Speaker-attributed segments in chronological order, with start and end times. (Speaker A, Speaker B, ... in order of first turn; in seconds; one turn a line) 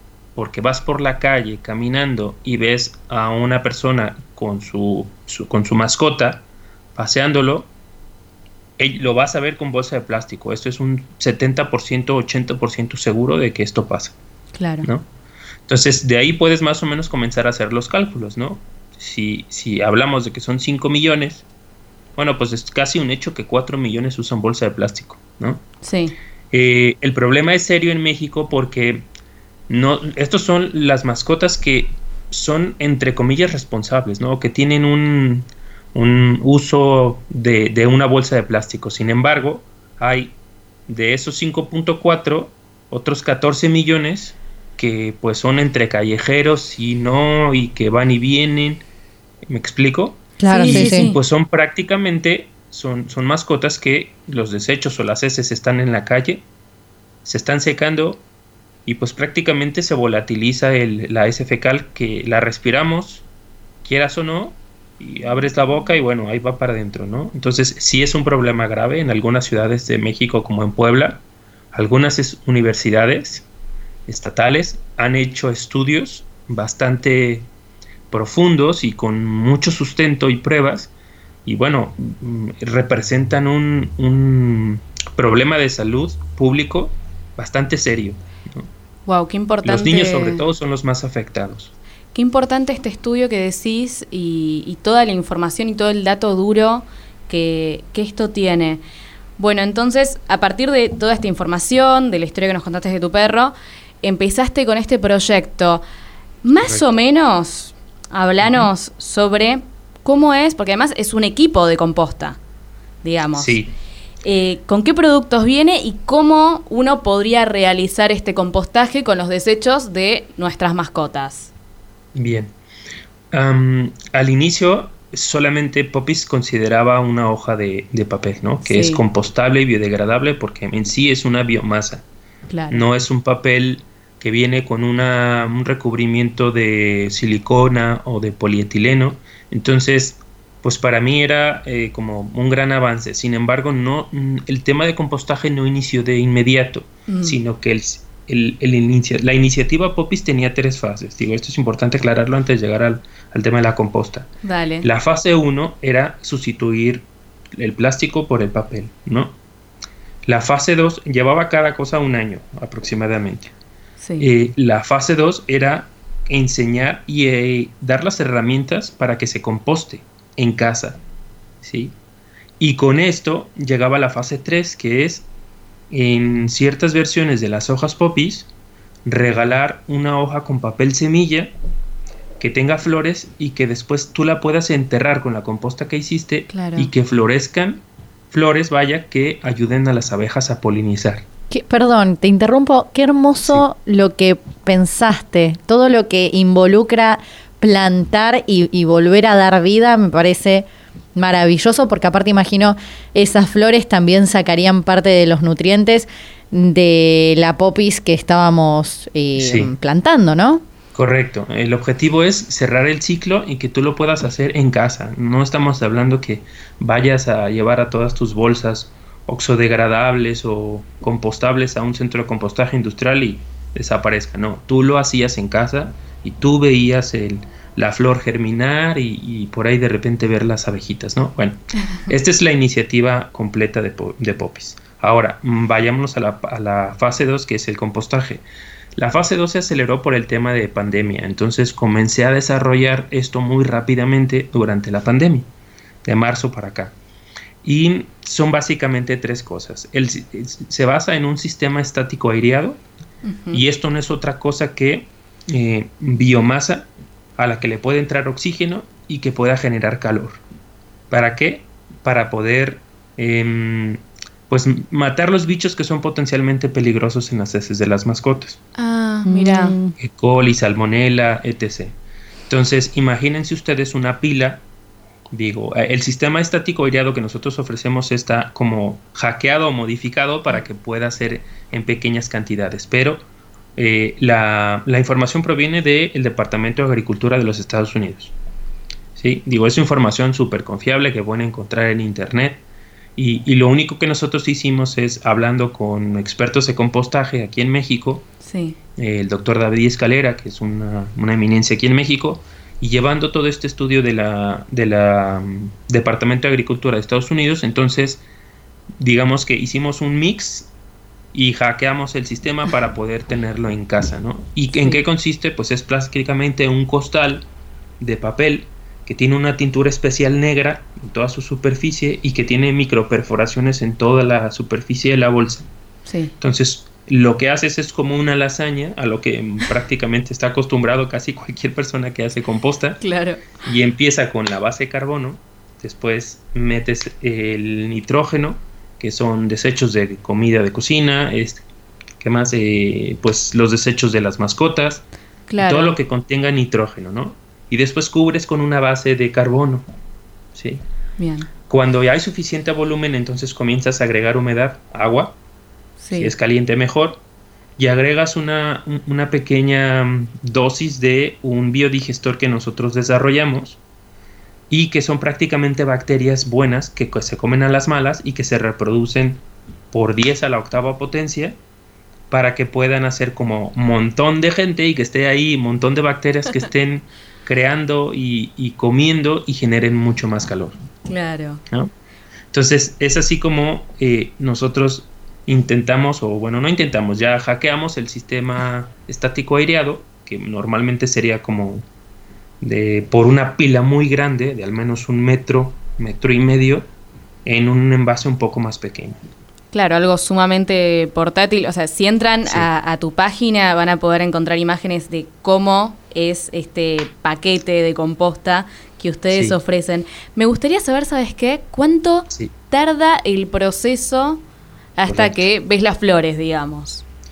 Speaker A: 0.3-7.7
Speaker A: 8.8-14.2
Speaker B: 14.5-14.9
Speaker A: 14.8-15.1
Speaker A: 15.7-21.4
Speaker A: 22.1-25.6
Speaker B: 25.8-26.1
Speaker A: 26.5-29.1
Speaker A: 29.7-40.4
Speaker A: 40.9-48.8
Speaker A: 49.4-56.5
Speaker C: 50.4-51.1
Speaker B: 50.5-51.2
Speaker A: 57.2-58.2
Speaker A: 58.9-63.2
Speaker A: 63.8-73.5
Speaker A: 74.1-77.5
Speaker A: 78.1-80.9
Speaker A: 81.4-88.7
Speaker B: 89.0-90.4
Speaker A: 89.6-91.7
Speaker B: 92.1-98.8
Speaker B: 99.4-105.8
Speaker B: 106.4-112.4
Speaker B: 113.0-113.6
Speaker A: 113.3-113.7
Speaker B: 114.2-121.5
Speaker A: 122.1-122.5
Speaker A: 123.3-132.1
Speaker B: 128.6-129.0
Speaker B: 132.5-132.8
Speaker A: 132.7-159.4
Speaker B: 147.1-147.4
Speaker B: 154.4-154.8
Speaker A: 160.2-163.5
Speaker B: 164.0-164.3
Speaker A: 164.2-171.0
Speaker A: 171.6-171.9
Speaker A: 172.6-175.3
Speaker A: 175.9-178.5
Speaker A: 179.1-181.5
Speaker A: 182.4-191.2
Speaker B: 186.5-186.9
Speaker C: 191.5-210.6
Speaker A: 209.3-209.7
Speaker A: 210.9-238.4
Speaker A: 238.9-245.5
Speaker A: 246.0-246.9
Speaker A: 247.6-252.8
Speaker B: 253.2-253.6
Speaker A: 253.5-260.4
Speaker A: 261.1-268.6
Speaker B: 268.8-269.8
Speaker C: 269.2-269.9
Speaker A: 270.0-271.9
Speaker A: 272.5-274.6
Speaker A: 275.3-283.2
Speaker A: 283.8-288.3
Speaker A: 289.1-292.6
Speaker A: 293.1-298.3
Speaker B: 298.4-298.8
Speaker A: 299.0-308.2
Speaker A: 309.0-310.7
Speaker A: 311.3-317.4
Speaker B: 314.7-315.0
Speaker A: 318.0-325.7
Speaker B: 326.1-326.3
Speaker A: 326.4-333.0
Speaker B: 333.0-333.5
Speaker A: 333.6-341.6
Speaker A: 342.2-345.0
Speaker B: 345.5-346.0
Speaker A: 345.6-349.9
Speaker A: 350.5-350.8
Speaker B: 351.2-351.5
Speaker A: 351.7-355.4
Speaker B: 356.0-356.3
Speaker A: 356.1-357.2
Speaker A: 357.8-363.8
Speaker A: 364.7-371.6
Speaker A: 372.3-380.8
Speaker B: 381.1-381.6
Speaker A: 382.5-391.9
Speaker A: 392.6-396.9
Speaker A: 397.4-399.2
Speaker B: 399.7-414.4
Speaker A: 409.3-409.6
Speaker B: 415.0-417.0
Speaker A: 415.0-415.5